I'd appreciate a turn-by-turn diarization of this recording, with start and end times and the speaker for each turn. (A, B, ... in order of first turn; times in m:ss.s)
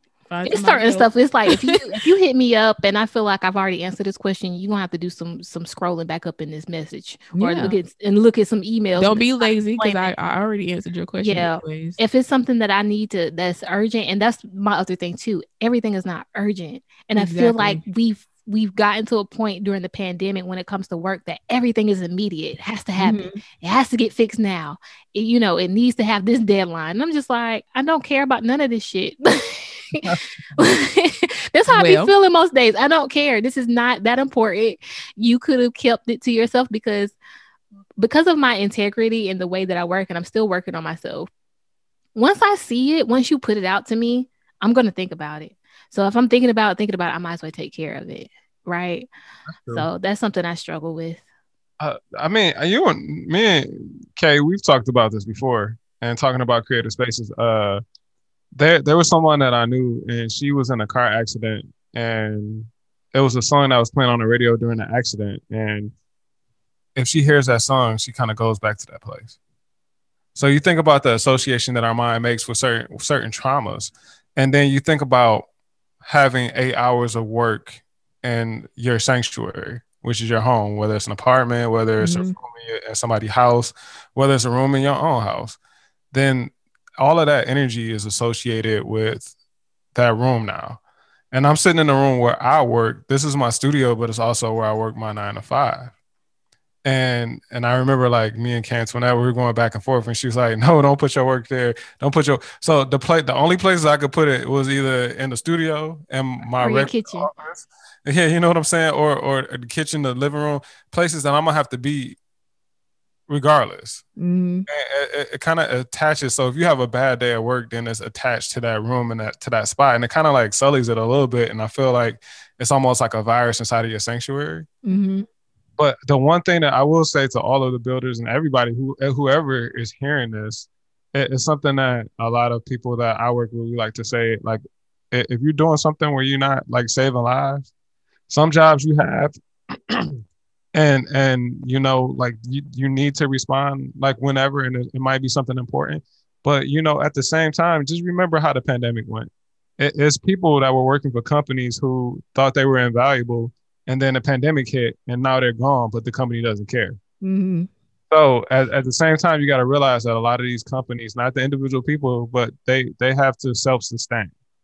0:00.3-0:01.9 A
0:00.4-0:10.1 B
0:07.3-0:07.8 A
0:09.0-0:12.0 A
0:11.2-0:37.1 B
0:17.2-0:17.8 A
0:23.0-0:23.4 A
0:31.7-0:32.1 A
0:38.0-0:41.3 B
0:42.1-0:49.1 B
0:49.5-0:49.9 C
0:49.7-0:51.2 B
0:51.8-0:57.8 C
0:58.5-1:05.9 C
1:07.0-1:09.3 C
1:10.3-1:15.4 C
1:16.0-1:25.6 C
1:22.0-1:22.3 A
1:26.1-1:29.3 C
1:29.9-1:30.8 C
1:31.3-1:35.9 C
1:36.8-1:52.2 C
1:46.5-1:47.3 B
1:53.3-1:54.0 C
1:54.2-1:54.7 A
1:54.7-2:04.7 C
2:04.8-2:05.2 A
2:05.8-2:14.6 C
2:15.1-2:17.6 C
2:18.3-2:20.2 C
2:20.7-2:37.0 C
2:37.2-2:37.7 A
2:38.1-2:44.3 C